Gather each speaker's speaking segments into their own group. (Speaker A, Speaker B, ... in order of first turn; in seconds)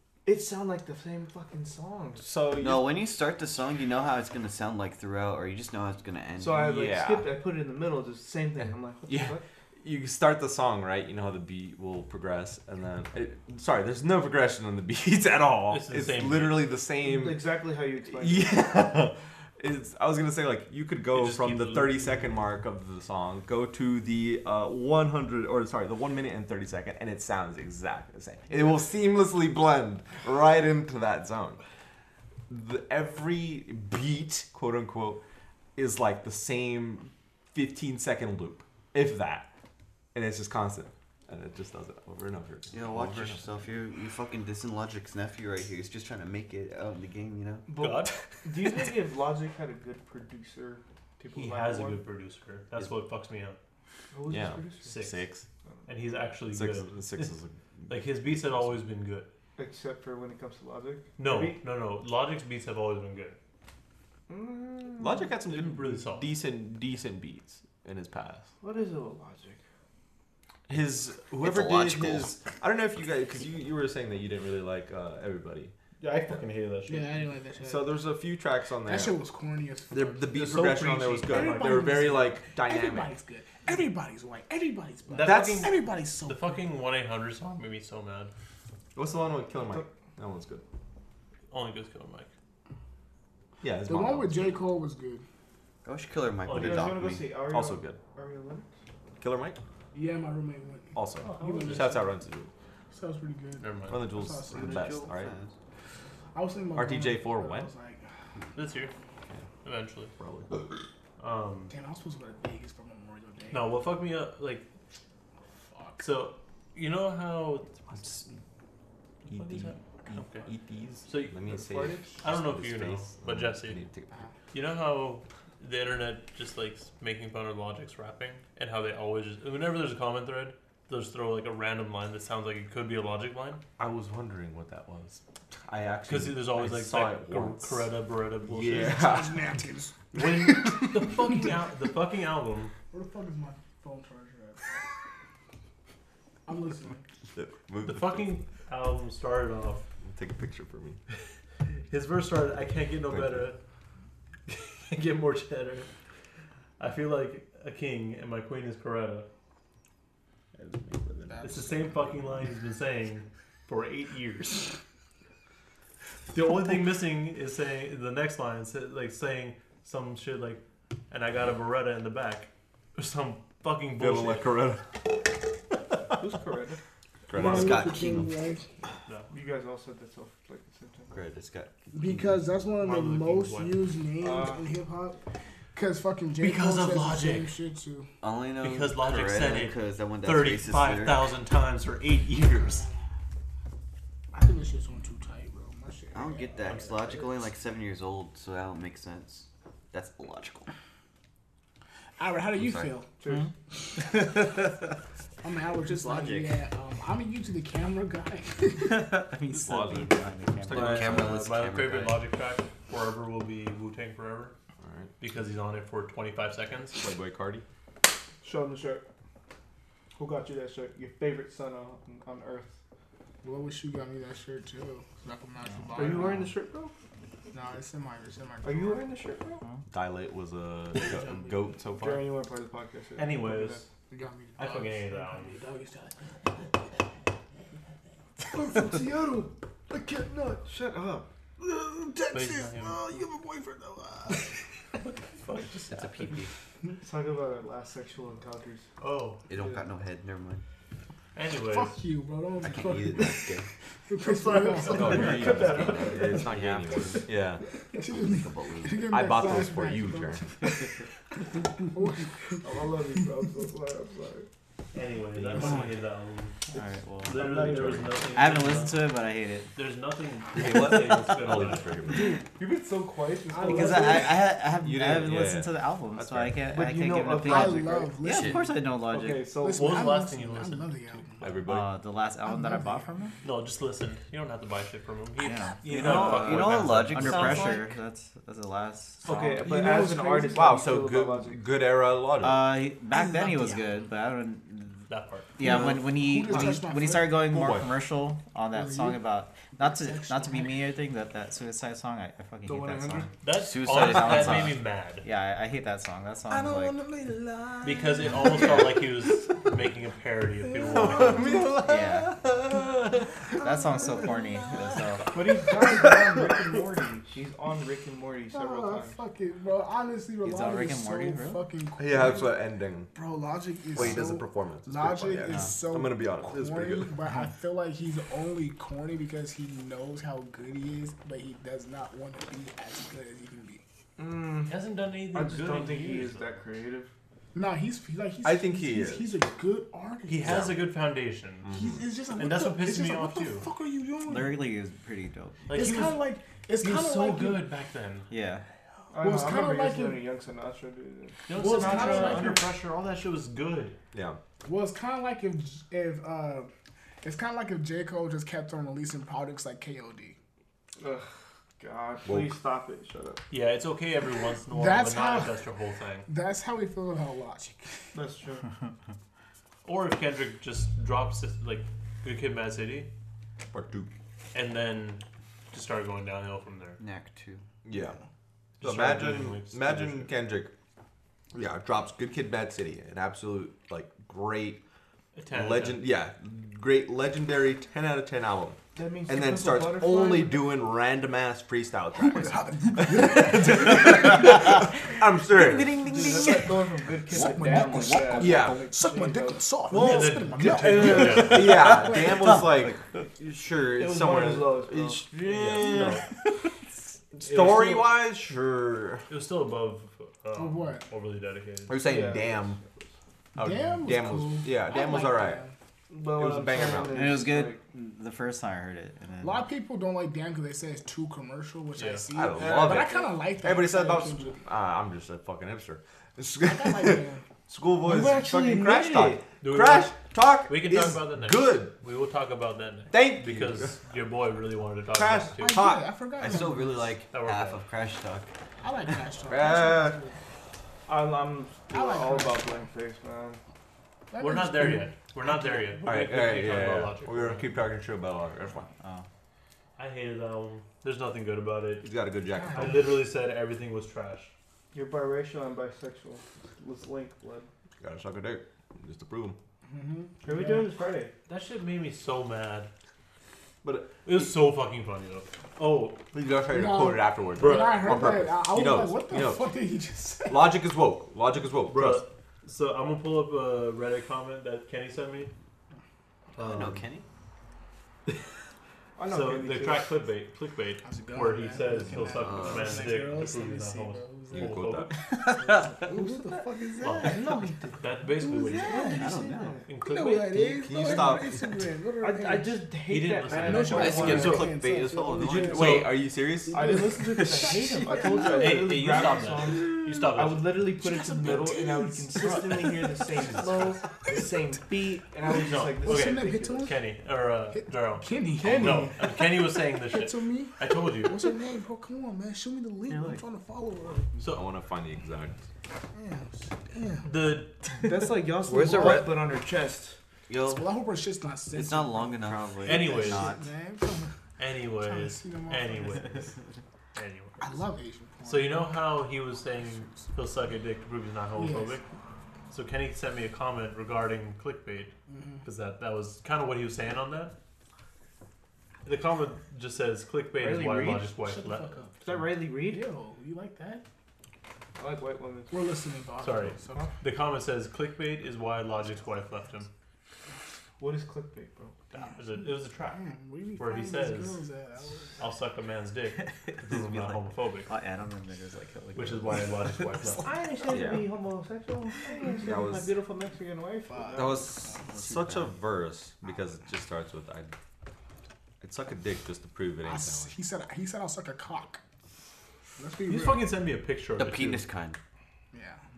Speaker A: 0.2-2.3, 6.4-9.4, 17.0-18.6, 47.7-52.0, 54.1-55.0, 59.6-61.6, 64.3-65.3, 68.6-69.6, 89.6-89.9, 96.5-98.7, 121.4-122.2, 176.2-176.8, 179.3-181.2, 184.2-184.7, 203.2-203.5, 218.4-219.1, 220.2-222.8, 225.9-226.9, 228.6-229.6, 231.9-233.8, 238.5-241.3, 247.0-248.9, 249.5-249.8, 254.2-256.5, 262.6-264.5, 267.3-268.3, 272.1-274.5, 276.7-278.1, 279.1-280.2, 289.2-291.6, 302.6-303.3, 315.3-319.2, 334.2-337.1, 349.1-352.7, 361.0-363.4, 368.1-368.7, 388.9-390.7, 395.9-401.7, 403.9-405.3, 412.0-413.1, 416.1-417.8, 422.5-423.4, 428.0-429.5, 441.1-443.6, 454.9-457.7, 460.4-461.3, 479.2-480.2, 486.0-489.9, 492.2-494.7, 495.4-496.0, 496.7-506.9, 508.6-509.2, 513.1-513.4, 518.0-520.2, 540.5-541.3, 542.2-543.1, 545.0-545.8, 546.8-547.1, 551.0-552.1, 560.4-564.7
Speaker B: 2.2-2.9, 6.6-7.3, 9.0-17.5, 18.1-31.6, 32.5-35.2, 35.8-39.5, 40.1-43.5, 54.3-55.5, 56.5-58.8, 65.0-68.5, 70.7-75.7, 77.6-79.2, 79.9-83.1, 85.2-85.7, 88.9-90.6, 93.6-94.6, 97.5-98.0, 99.2-99.6, 100.9-102.5, 103.9-105.3, 106.7-107.7, 110.2-110.7, 117.9-118.4, 119.2-124.2, 133.8-137.9, 138.4-139.5, 147.3-148.3, 150.0-151.0, 153.1-153.5, 160.5-161.5, 173.9-175.8, 177.3-178.2, 209.5-211.4, 214.8-215.1, 216.9-217.6, 229.9-232.2, 254.9-257.6, 259.1-260.5, 270.5-272.4, 274.8-276.6, 281.4-281.9, 289.8-292.7, 295.6-296.0, 297.5-297.9, 306.5-308.8, 310.8-316.7, 322.0-323.1, 323.9-327.1, 338.4-339.4, 340.4-340.7, 341.6-342.1, 354.1-354.4, 362.2-362.6, 373.7-374.1, 377.8-378.2, 378.8-380.7, 381.5-384.8, 385.5-396.6, 398.4-398.9, 399.9-406.2, 407.3-409.3, 411.9-412.8, 413.5-415.6, 416.3-417.3, 422.3-431.9, 433.1-434.0, 435.1-436.1, 439.5-440.2, 446.0-448.9, 452.0-453.2, 458.0-459.6, 463.8-464.5, 466.3-469.7, 470.5-472.2, 484.5-485.2, 490.8-491.8, 494.1-494.8, 495.4-497.1, 499.2-499.6, 514.4-515.7, 560.9-561.3, 562.5-563.1, 564.4-567.7, 568.8-570.5
Speaker C: 2.5-6.7, 42.7-47.7, 71.4-72.3, 95.8-97.3, 104.5-105.5, 177.3-178.3, 181.1-182.3, 188.2-191.3, 196.1-200.7, 202.6-202.9, 210.7-212.2, 245.9-246.5, 249.5-250.6, 252.6-253.7, 255.2-257.3, 258.0-259.8, 278.2-278.8, 285.9-287.9, 303.6-304.8, 377.0-377.6, 395.6-396.6, 403.4-403.6, 436.4-438.5, 476.6-477.2, 482.1-483.2, 489.1-489.8, 493.8-496.0, 518.6-519.4, 520.5-521.0, 521.7-523.7, 574.4-575.2
Speaker D: 15.7-16.7, 21.1-22.4, 47.7-48.2, 51.3-53.6, 54.8-55.2, 55.9-57.3, 57.9-59.3, 61.2-63.4, 65.5-66.3, 76.0-77.3, 80.4-82.2, 85.1-88.3, 91.5-92.3, 96.4-97.0, 101.2-102.0, 103.6-104.0, 108.5-108.9, 109.6-110.1, 111.2-111.7, 113.5-114.7, 116.0-117.9, 119.2-120.5, 121.0-121.3, 122.2-123.8, 124.5-133.6, 136.1-139.1, 140.1-142.7, 147.8-149.8, 151.9-153.6, 154.5-155.9, 156.8-159.3, 161.4-164.8, 166.3-174.6, 179.1-179.3, 182.8-183.8, 186.4-187.5, 188.6-192.9, 210.7-214.5, 215.2-217.1, 230.9-231.7, 233.2-233.8, 234.6-235.6, 242.3-243.1, 245.0-246.5, 249.0-249.4, 251.3-252.0, 264.9-266.6, 267.2-269.0, 269.7-271.9, 279.7-281.7, 283.4-287.9, 295.1-295.5, 303.4-305.2, 307.8-311.5, 334.7-336.6, 340.2-341.7, 342.4-343.7, 345.7-346.2, 346.8-348.3, 351.5-354.0, 363.5-366.3, 369.8-373.1, 374.5-377.0, 378.8-380.3, 385.3-386.1, 399.9-401.9, 405.5-406.3, 409.3-412.0, 422.0-422.2, 429.6-435.9, 437.3-437.8, 444.4-447.7, 450.0-452.1, 452.7-454.5, 461.5-462.9, 464.2-466.2, 467.6-468.3, 471.9-475.5, 476.6-477.0, 479.3-485.2, 487.0-489.1, 489.9-490.9, 493.1-494.6, 495.7-496.1, 498.3-500.8, 505.5-511.6, 514.4-514.7, 517.2-518.1, 522.8-523.5, 524.6-526.6, 527.1-527.8, 528.4-532.0, 532.7-537.5, 539.0-542.5, 546.4-549.9, 552.1-553.2, 553.8-554.6, 555.4-557.9, 559.1-560.5, 573.2-574.8
Speaker E: 76.9-78.0, 78.8-80.7, 81.2-86.7, 93.8-95.2, 99.9-102.1, 102.9-105.1, 106.3-108.1, 111.7-113.7, 115.7-116.0, 138.7-141.3, 142.9-144.8, 146.4-147.0, 161.3-162.0, 177.3-178.7, 181.9-185.2, 185.7-188.1, 192.6-193.0, 194.3-197.0, 202.2-203.1, 203.8-204.5, 205.4-209.0, 223.4-226.5, 227.5-229.0, 234.1-236.7, 241.6-244.5, 251.7-253.5, 254.1-255.6, 257.9-260.9, 261.9-262.7, 273.5-274.4, 277.4-278.7, 279.6-281.5, 282.4-283.1, 289.6-290.6, 293.1-293.8, 295.6-297.4, 298.7-299.2, 299.8-300.8, 311.0-311.4, 318.5-333.8, 337.5-340.8, 341.7-344.6, 345.7-347.7, 349.1-350.2, 351.5-352.6, 354.6-356.7, 357.2-360.4, 364.7-365.6, 366.2-368.1, 392.1-394.8, 397.3-402.6, 410.5-411.0, 413.6-415.7, 419.4-424.6, 426.6-427.4, 435.6-437.1, 438.8-440.3, 441.9-442.9, 444.3-446.1, 452.5-453.1, 459.9-460.9, 466.7-470.7, 481.0-487.4, 488.4-489.4, 490.0-492.9, 493.6-496.0, 496.6-498.8, 501.0-503.2, 506.0-506.9, 507.7-514.2, 516.1-518.1, 520.6-524.4, 525.0-526.5, 527.6-529.2, 529.8-530.3, 531.5-532.0, 535.3-535.6, 541.3-544.0, 545.7-547.1, 552.1-555.5, 564.0-565.1, 570.0-572.0, 573.0-573.8, 575.7-576.0
Speaker F: 204.0-204.3, 208.8-211.2, 225.7-226.4, 265.5-265.8, 266.7-269.7, 273.6-279.5, 281.7-283.4, 285.4-289.7, 292.4-307.0, 311.8-312.3, 313.5-315.4, 320.4-321.7, 325.5-325.7, 344.2-345.7, 348.3-348.6, 401.9-402.6, 417.1-419.6, 449.0-449.2, 556.4-560.3